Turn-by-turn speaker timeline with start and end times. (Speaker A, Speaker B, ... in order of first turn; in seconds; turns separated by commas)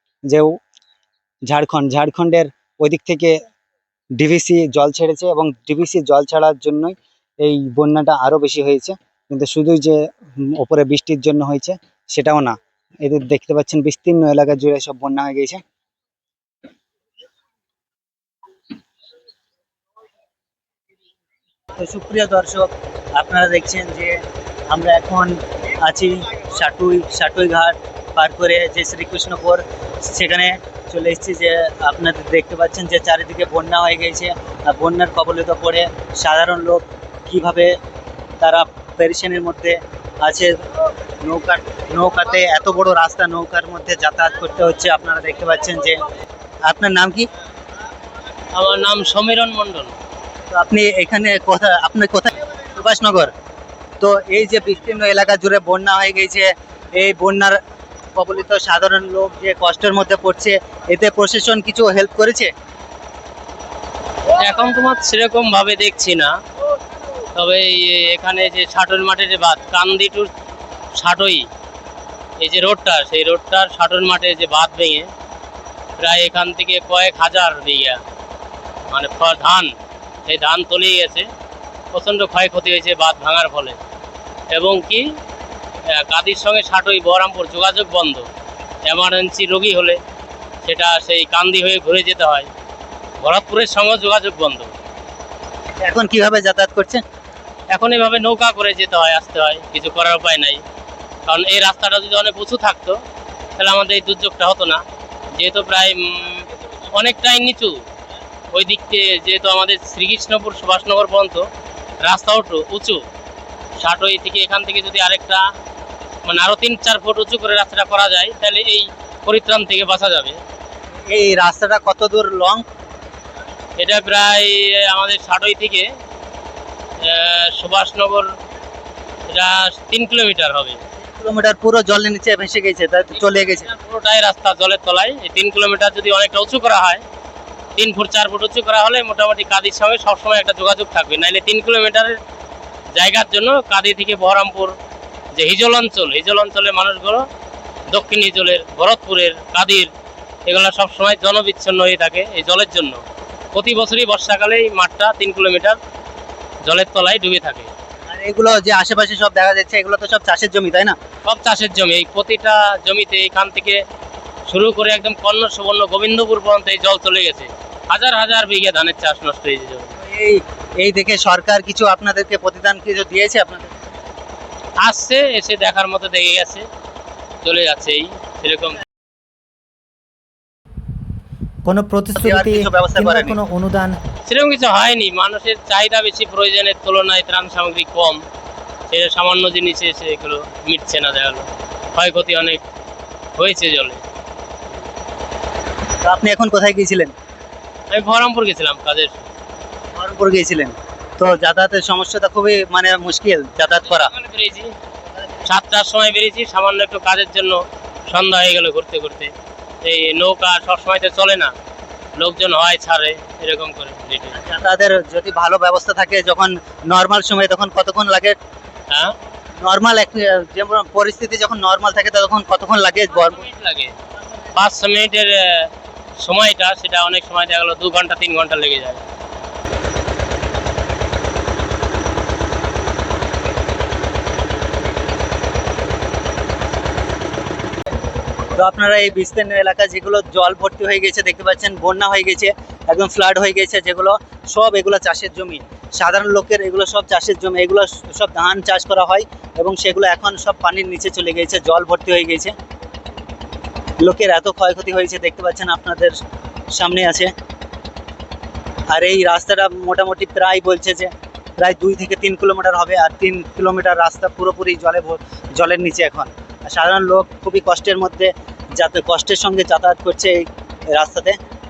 Speaker A: 0.3-0.6, Speaker A: 1.5-3.4, Speaker A: 4.2-15.6, Speaker A: 21.8-37.8, Speaker A: 38.4-40.5, Speaker A: 41.2-46.0, Speaker A: 46.7-47.3, Speaker B: 48.5-50.0, Speaker A: 50.5-53.3, Speaker A: 54.0-57.6, Speaker A: 58.2-62.5, Speaker B: 64.3-66.3, Speaker B: 67.3-70.3, Speaker B: 71.0-71.5, Speaker B: 72.4-75.1, Speaker B: 76.0-78.0, Speaker B: 78.9-79.7, Speaker B: 80.3-81.3, Speaker B: 81.9-83.8, Speaker B: 84.5-85.1, Speaker B: 85.9-88.3, Speaker B: 88.8-90.0, Speaker B: 90.6-92.5, Speaker B: 93.2-94.7, Speaker A: 95.8-97.0, Speaker B: 97.7-100.6, Speaker B: 101.3-103.0, Speaker B: 103.6-104.8, Speaker B: 105.4-107.8, Speaker B: 108.5-111.5, Speaker B: 112.0-113.0, Speaker B: 113.8-115.5, Speaker B: 116.3-120.4, Speaker A: 121.1-122.7, Speaker B: 123.8-125.9, Speaker B: 127.0-128.3, Speaker B: 129.3-130.8, Speaker A: 131.1-133.7, Speaker B: 133.2-137.0, Speaker B: 137.8-142.2, Speaker B: 142.9-144.8, Speaker B: 145.3-147.3, Speaker B: 147.9-149.9, Speaker B: 150.5-153.0, Speaker B: 153.5-155.8, Speaker B: 156.7-157.7, Speaker A: 158.1-161.0, Speaker B: 161.2-163.8, Speaker B: 164.5-169.9, Speaker A: 170.0-173.7, Speaker B: 174.8-176.7, Speaker B: 177.4-178.8, Speaker C: 181.7-184.0, Speaker A: 182.2-183.4, Speaker B: 184.3-188.2, Speaker B: 188.9-192.6, Speaker B: 193.4-194.0, Speaker A: 196.0-197.1, Speaker B: 197.9-199.2, Speaker A: 199.9-204.1, Speaker B: 203.8-204.7, Speaker B: 205.4-211.5, Speaker B: 212.2-214.4, Speaker A: 214.3-218.4, Speaker B: 218.9-219.2, Speaker A: 219.6-223.4, Speaker B: 223.1-224.0, Speaker B: 224.5-229.0, Speaker A: 238.6-252.5, Speaker A: 254.0-256.2, Speaker A: 256.7-257.3, Speaker A: 258.9-271.4